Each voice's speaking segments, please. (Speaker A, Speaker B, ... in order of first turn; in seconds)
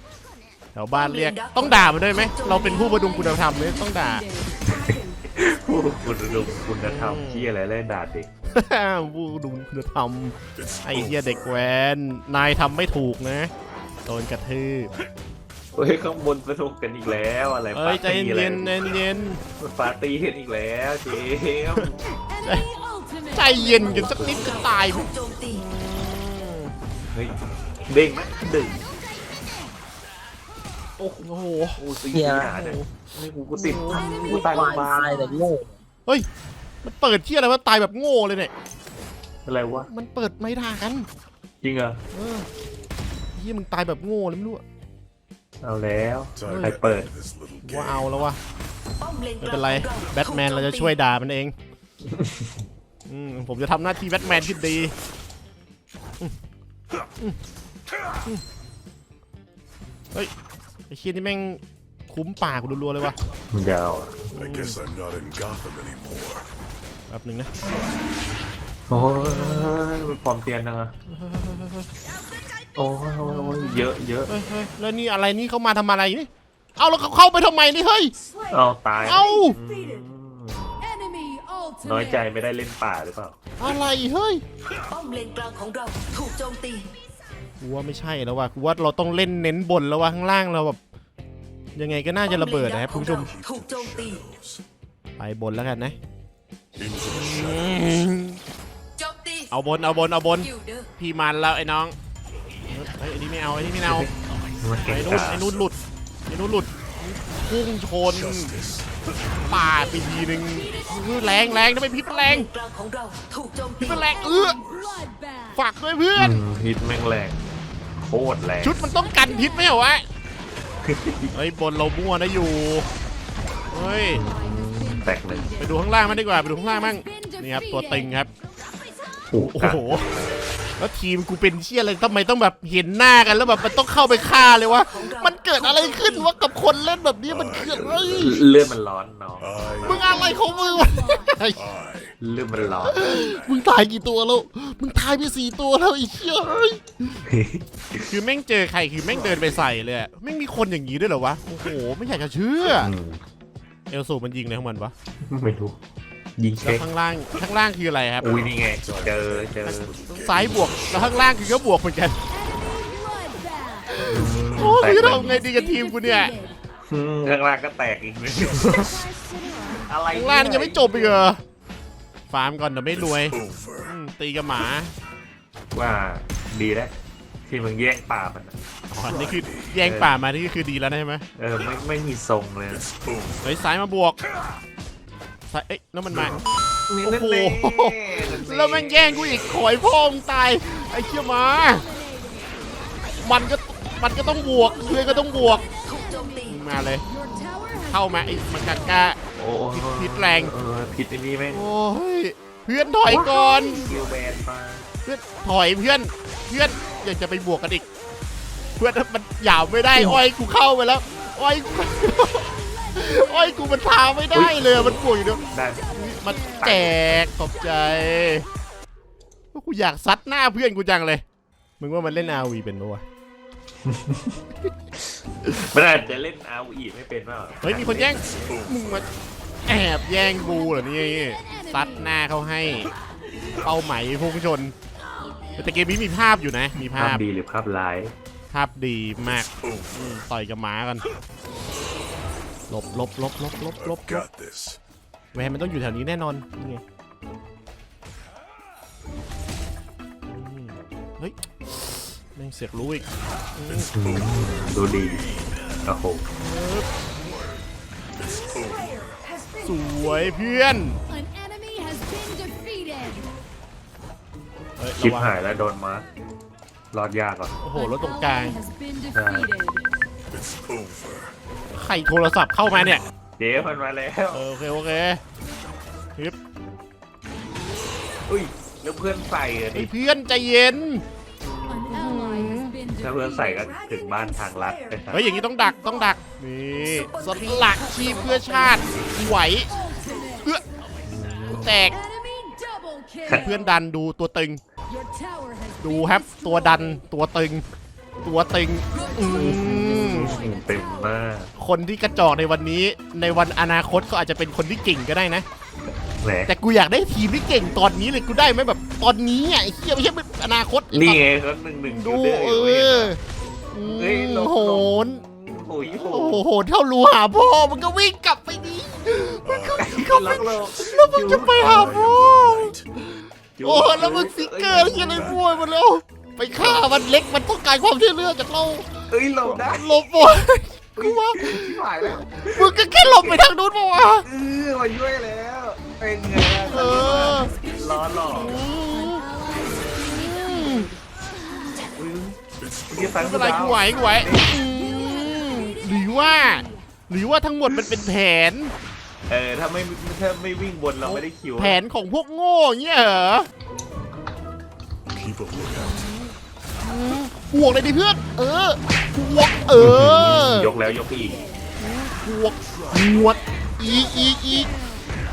Speaker A: 0.7-4.2, 6.8-7.5, 8.5-13.5, 14.1-14.9, 17.7-19.4, 22.4-22.7, 23.3-26.7, 31.2-31.8, 32.5-32.9, 33.5-34.1, 36.8-38.5, 39.9-41.1, 42.1-42.5, 43.3-44.6, 46.5-46.8, 47.6-48.4, 49.4-51.5, 53.1-54.9, 60.9-63.2, 64.3-64.8, 67.1-67.5, 69.2-69.7, 71.1-71.9, 73.2-78.1, 79.0-79.6, 83.6-84.4, 87.6-90.8, 91.8-93.3, 95.2-96.0, 97.0-98.4, 99.5-101.9, 102.7-104.1, 104.8-105.8, 106.3-108.5, 109.4-112.5, 113.8-114.6, 115.5-116.4, 118.6-120.0, 121.3-122.9, 123.7-124.2, 125.6-128.3, 129.4-130.1, 130.8-138.4, 139.8-141.7, 142.8-147.2, 148.1-152.9, 153.9-154.9, 156.6-158.3, 159.6-162.2, 163.9-166.3, 170.1-171.4, 172.3-174.9, 178.9-181.2, 183.4-184.2, 185.5-186.3, 187.0-191.9, 193.1-195.7, 196.4-197.0, 197.9-199.2, 199.7-200.5, 201.5-203.9, 205.0-207.8, 208.8-218.4, 219.5-221.2, 221.8-223.0, 227.6-229.1, 229.7-232.9, 233.6-234.7, 235.6-237.2, 238.5-241.0, 242.7-244.2, 245.3-246.8, 250.3-253.9, 256.4-256.9, 259.6-261.0, 264.8-265.4, 267.6-268.6, 271.7-273.0, 274.3-275.2, 279.7-281.0, 281.9-282.8, 285.1-289.8, 291.5-292.0, 293.3-294.6, 295.8-297.6, 298.2-300.4, 301.6-305.4, 306.5-311.2, 311.9-313.2, 313.7-315.2, 315.9-334.2, 336.6-337.6, 338.3-339.3, 339.9-340.9, 343.1-348.7, 351.0-353.5, 355.7-360.7, 361.8-364.7
Speaker B: 0.9-3.4, 4.7-5.0, 23.8-25.6, 34.5-35.0, 49.0-50.9, 84.9-86.9, 92.2-94.2, 99.0-99.5, 100.4-100.9, 110.0-114.1, 133.9-136.3, 195.4-196.6, 283.3-285.6, 286.8-289.1
Speaker C: 3.7-4.6, 22.7-23.8, 35.1-35.4, 81.0-82.0, 140.2-141.0, 162.4-163.8, 165.4-166.5, 169.1-169.8, 192.1-192.5, 194.8-196.4, 197.1-198.2, 261.1-263.2, 268.0-269.8, 281.8-283.0, 289.8-290.4, 292.0-293.4, 294.9-296.4, 298.9-299.2, 300.0-300.8, 338.9-340.9, 341.4-341.9, 344.1-346.7
Speaker D: 4.6-8.3, 15.7-18.9, 19.6-22.0, 27.1-28.9, 31.0-31.2, 31.8-35.6, 39.5-39.9, 41.6-42.0, 45.6-47.1, 63.5-64.3, 68.9-70.9, 72.8-74.3, 78.5-80.8, 81.8-83.4, 103.8-105.5, 116.2-117.4, 118.0-118.8, 120.8-121.3, 124.1-125.6, 129.3-130.3, 138.2-140.1, 142.2-143.0, 147.2-148.1, 152.7-153.2, 155.2-155.8, 156.4-156.8, 158.2-159.9, 164.1-165.4, 166.8-169.1, 169.8-171.2, 175.7-178.5, 179.8-180.1, 181.4-182.9, 186.1-189.7, 199.3-201.6, 203.1-204.8, 214.3-215.9, 216.5-217.2, 223.8-224.3, 225.6-228.4, 236.9-238.1, 253.9-255.3, 255.8-256.2, 265.0-266.1, 266.9-267.6, 269.1-269.5, 273.4-274.4, 278.2-279.9, 281.5-281.9, 282.9-285.3, 291.0-291.8, 299.3-301.5, 306.2-306.5, 310.9-313.1, 313.8-316.4, 319.8-322.0, 323.6-325.4, 326.6-326.9, 329.1-330.0, 330.9-333.4, 334.2-338.6, 341.9-342.4, 342.9-344.6, 349.3-351.8, 359.8-361.5
Speaker E: 10.6-11.2, 46.4-48.1, 64.3-66.5, 93.3-94.6, 96.8-97.8, 108.1-108.9, 137.3-138.2, 139.4-140.0, 141.6-142.1, 142.8-143.3, 158.2-161.0, 173.3-173.8, 179.1-179.6, 182.9-183.3, 243.9-244.8, 258.2-259.0, 270.4-271.3, 319.4-320.6, 321.2-322.8, 325.0-325.5, 342.6-343.5, 355.1-356.0